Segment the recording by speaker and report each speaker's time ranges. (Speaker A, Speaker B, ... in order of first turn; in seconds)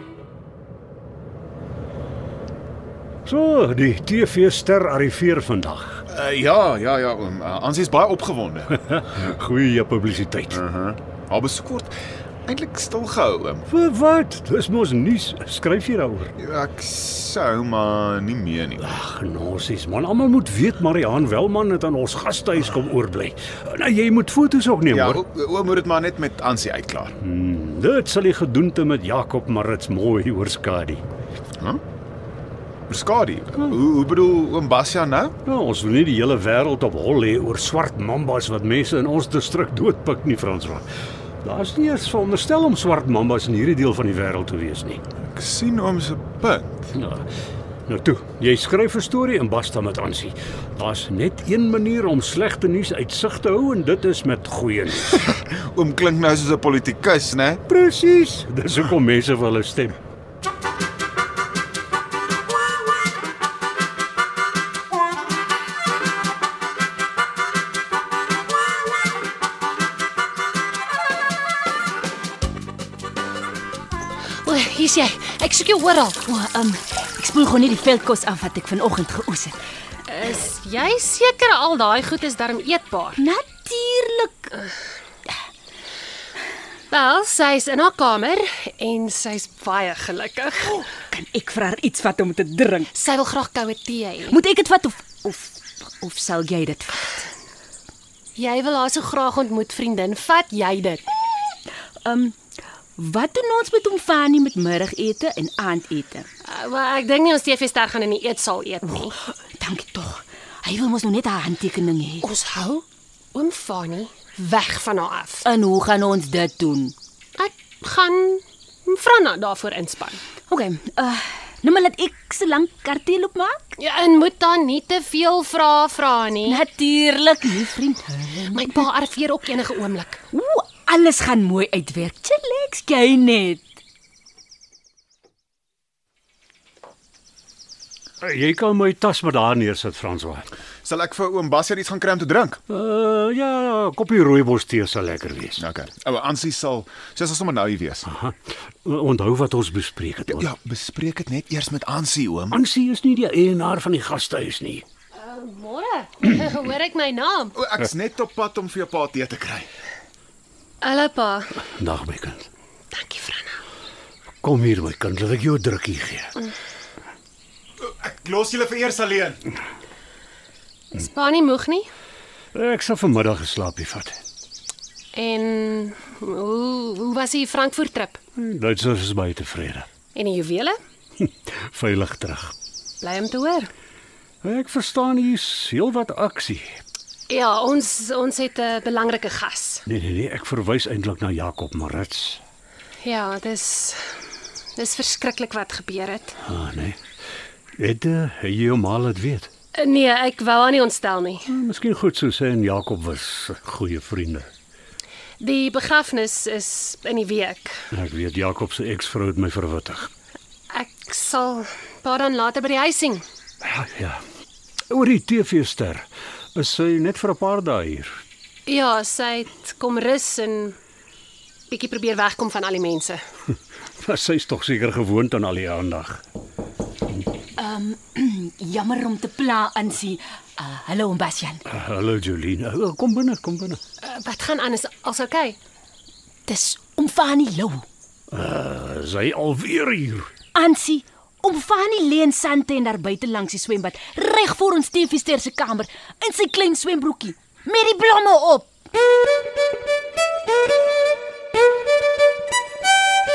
Speaker A: 3.3-6.0, 8.9-10.6, 13.7-16.3, 18.8-25.2, 27.2-31.0, 35.5-40.9, 41.4-45.0, 47.0-47.3, 47.9-55.2, 57.7-60.0, 138.2-140.5, 142.7-145.6, 148.1-150.5, 152.5-154.8, 161.6-162.5, 164.4-166.3, 172.5-174.2, 178.4-179.9, 181.2-182.6, 184.4-186.8, 189.9-192.4, 196.4-197.0, 197.8-199.5, 201.5-204.5, 207.9-210.1, 213.6-214.2, 214.9-218.1, 224.0-226.2, 231.7-233.8, 238.3-240.3
Speaker B: 6.1-8.8, 10.5-13.7, 16.4-18.9, 24.9-27.1, 32.9-35.3, 45.2-46.9, 55.2-57.6, 140.8-142.6, 145.6-148.1, 150.3-152.6, 157.6-159.7, 167.8-169.4
Speaker C: 74.5-76.2, 80.1-83.2, 86.9-90.8, 92.9-94.4, 98.4-101.0, 106.5-109.1, 112.2-115.4, 117.4-120.2, 123.8-126.6, 128.5-130.2, 155.1-157.6, 160.8-161.5, 162.9-163.6, 170.9-171.9, 175.1-178.2, 180.1-180.8, 183.0-183.7, 187.3-189.8, 193.0-194.0, 194.8-196.3, 199.8-201.4, 205.4-207.7, 210.7-213.2, 218.7-220.8, 221.7-223.2, 234.0-235.6
Speaker D: 76.2-79.6, 83.2-84.6, 90.7-92.9, 94.3-97.2, 102.0-102.3, 103.0-106.3, 109.6-112.3, 115.4-117.0, 120.5-123.8, 126.5-128.9, 130.3-133.7, 227.6-231.6, 236.5-237.8, 240.5-248.7